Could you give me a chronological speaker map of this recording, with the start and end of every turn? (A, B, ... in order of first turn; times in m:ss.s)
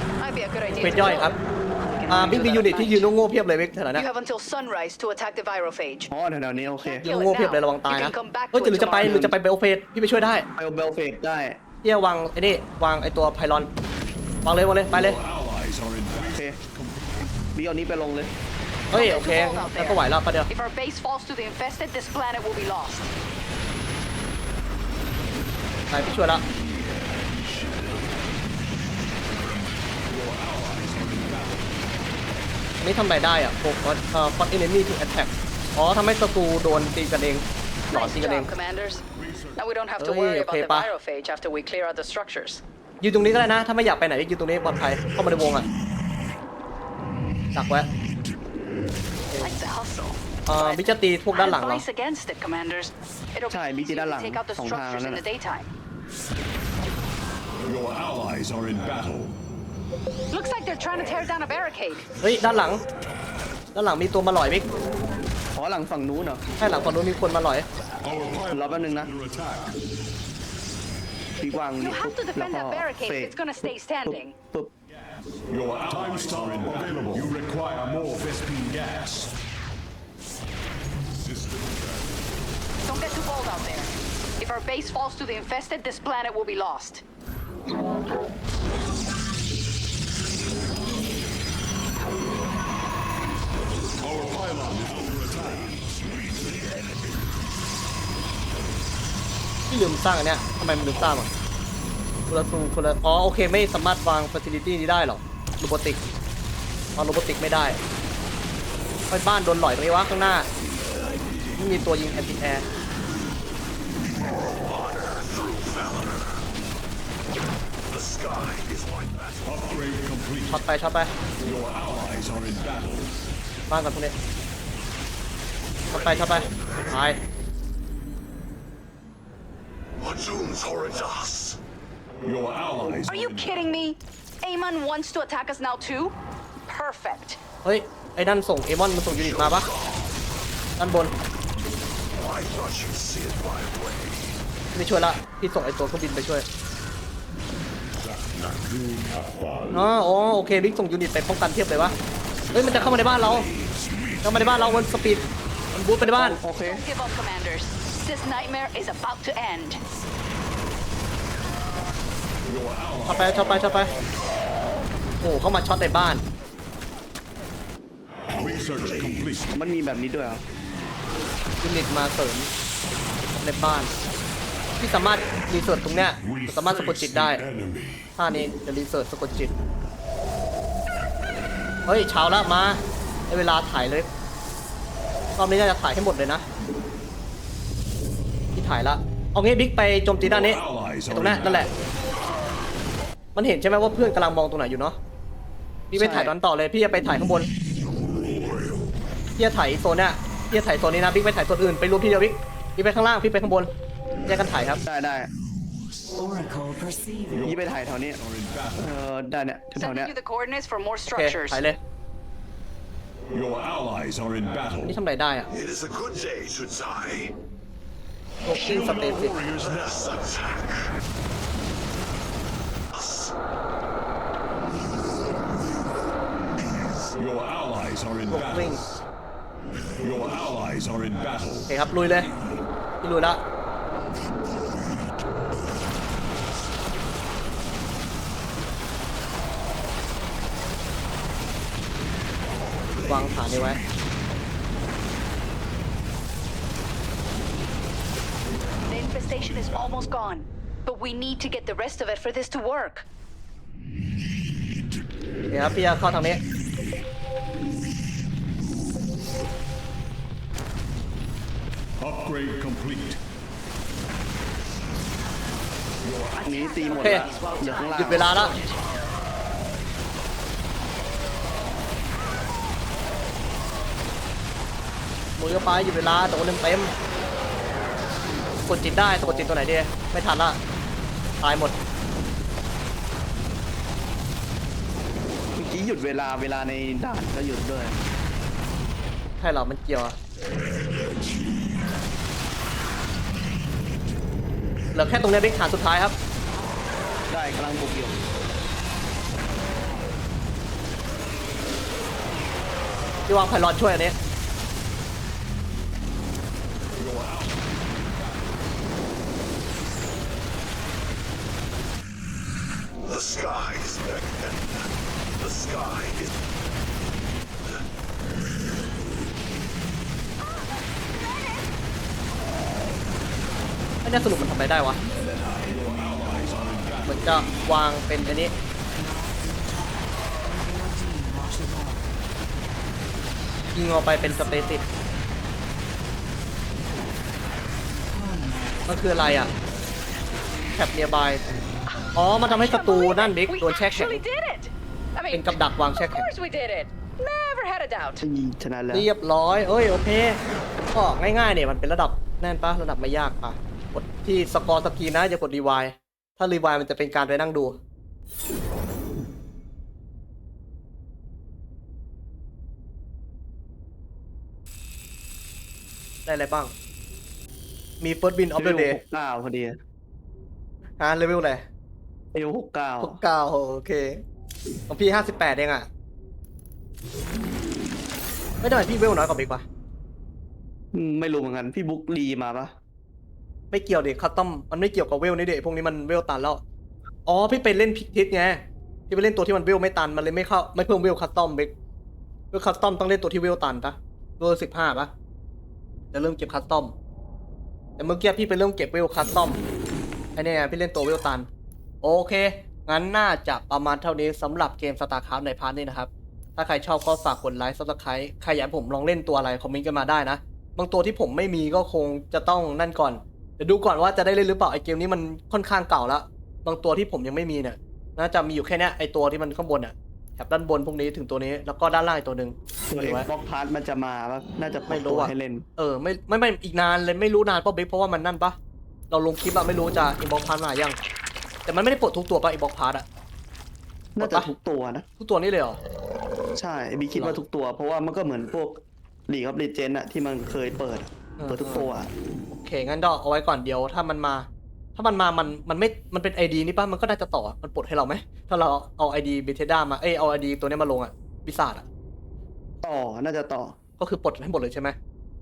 0:00.2-0:03.1 A
0:00.8-0:01.4 B
0:02.1-0:04.0 B
0:03.9-0:06.1 A
0:06.1-0:07.1 C
0:06.8-0:09.2 A
0:07.0-0:10.5 B
0:09.0-0:09.4 C
0:10.6-0:11.6 C
0:11.8-0:13.7 B
0:14.4-0:15.2 B
0:14.9-0:17.3 D
0:16.3-0:16.6 C
0:17.5-0:18.3 C
0:18.9-0:20.5 B
0:18.9-0:23.1 A
0:25.9-0:26.4 B
0:30.0-0:31.8 D
0:32.8-0:38.5 B
0:37.9-0:39.0 A
0:39.1-0:39.6 D
0:39.6-0:42.6 A
0:40.0-0:40.9 B
0:43.0-0:45.7 B
0:47.5-0:47.9 B
0:49.4-0:55.7 A
0:50.5-0:51.8 B
0:53.5-0:55.2 C
0:57.6-0:59.4 D
1:00.3-1:02.0 A
1:02.2-1:02.8 B
1:03.7-1:04.7 B
1:05.5-1:06.4 C
1:06.6-1:07.7 B
1:08.0-1:09.8 D
1:08.5-1:09.1 C
1:11.4-1:13.4 C
1:11.7-1:14.3 A
1:14.0-1:14.7 C
1:14.9-1:19.3 D
1:22.8-1:27.0 A
1:34.0-1:35.8 D
1:39.7-1:41.3 B
1:42.3-1:46.0 B
1:47.0-1:47.8 B
1:49.1-1:50.5 B
1:51.6-1:52.7 B
1:54.5-1:56.4 E
1:57.9-1:59.8 E
1:59.4-2:00.7 D
2:00.5-2:01.1 B
2:01.4-2:03.3 D
2:03.7-2:04.1 B
2:05.9-2:07.2 B
2:10.0-2:11.6 E
2:12.2-2:13.8 D
2:13.1-2:16.1 A
2:16.7-2:17.4 A
2:17.6-2:19.7 B
2:19.1-2:20.1 E
2:20.8-2:21.1 B
2:22.2-2:24.3 E
2:24.7-2:26.4 B
2:29.7-2:31.9 B
2:32.5-2:33.5 B
2:34.2-2:36.4 B
2:36.0-2:36.8 C
2:36.6-2:39.8 A
2:42.4-2:43.3 D
2:43.0-2:43.9 B
2:45.2-2:46.2 B
2:48.4-2:49.5 D
2:49.5-2:50.4 C
2:51.6-2:52.5 B
2:53.3-2:53.9 B
2:54.8-2:57.4 B
2:56.2-2:57.9 D
2:58.2-2:59.5 B
3:01.9-3:04.1 B
3:05.4-3:06.4 B
3:08.5-3:11.7 B
3:10.2-3:11.7 D
3:13.3-3:15.0 B
3:15.9-3:17.5 B
3:15.9-3:16.3 C
3:19.4-3:23.7 B
3:24.3-3:24.8 B
3:24.8-3:25.3 C
3:27.3-3:27.6 D
3:27.3-3:28.2 C
3:28.1-3:28.9 D
3:28.8-3:30.1 C
3:29.7-3:31.6 A
3:31.1-3:31.8 B
3:33.3-3:35.0 D
3:34.8-3:35.5 B
3:35.5-3:37.3 E
3:38.4-3:39.4 B
3:38.5-3:39.8 D
3:39.6-3:40.9 E
3:42.9-3:43.3 E
3:47.1-3:49.0 D
3:48.3-3:48.8 B
3:50.0-3:51.8 D
3:51.7-3:52.3 B
3:53.0-3:53.4 B
4:03.0-4:03.8 B
4:08.9-4:13.0 A
4:15.5-4:16.4 B
4:22.0-4:23.2 D
4:26.1-4:26.4 D
4:26.4-4:28.5 C
4:26.8-4:28.7 A
4:27.0-4:27.2 B
4:27.9-4:28.6 B
4:35.4-4:36.9 B
4:38.7-4:40.6 B
4:39.2-4:39.6 C
4:41.4-4:41.7 B
4:45.6-4:48.0 C
4:49.4-4:50.2 B
4:54.9-4:56.2 B
4:57.3-4:58.2 C
5:03.3-5:04.1 B
5:07.0-5:08.4 D
5:13.0-5:14.7 E
5:15.4-5:16.3 E
5:24.0-5:25.0 B
5:25.4-5:27.6 D
5:27.0-5:28.5 B
5:33.7-5:34.8 B
5:38.9-5:39.5 B
5:40.7-5:41.4 B
5:42.1-5:44.2 B
5:42.4-5:48.2 A
5:45.3-5:46.3 B
5:48.2-5:49.1 C
5:48.9-5:50.4 B
5:50.9-5:57.8 B
6:06.2-6:06.7 B
6:08.0-6:09.0 B
6:08.6-6:09.8 C
6:11.0-6:11.6 B
6:12.3-6:13.2 C
6:13.0-6:14.2 B
6:14.9-6:15.9 B
6:18.6-6:19.6 B
6:20.9-6:22.7 C
6:23.7-6:26.6 B
6:27.2-6:31.7 B
6:32.5-6:35.1 B
6:36.1-6:36.9 B
6:38.0-6:39.6 B
6:40.3-6:41.5 B
6:42.0-7:03.3 B
7:02.9-7:05.6 C
7:04.9-7:08.6 B
7:09.1-7:11.0 B
7:11.6-7:13.0 B
7:14.2-7:15.0 C
7:14.2-7:14.5 B
7:15.2-7:15.8 B
7:16.6-7:22.1 C
7:17.1-7:17.4 B
7:21.4-7:21.9 B
7:22.5-7:31.8 B
7:32.8-7:33.7 C
7:34.0-7:35.0 B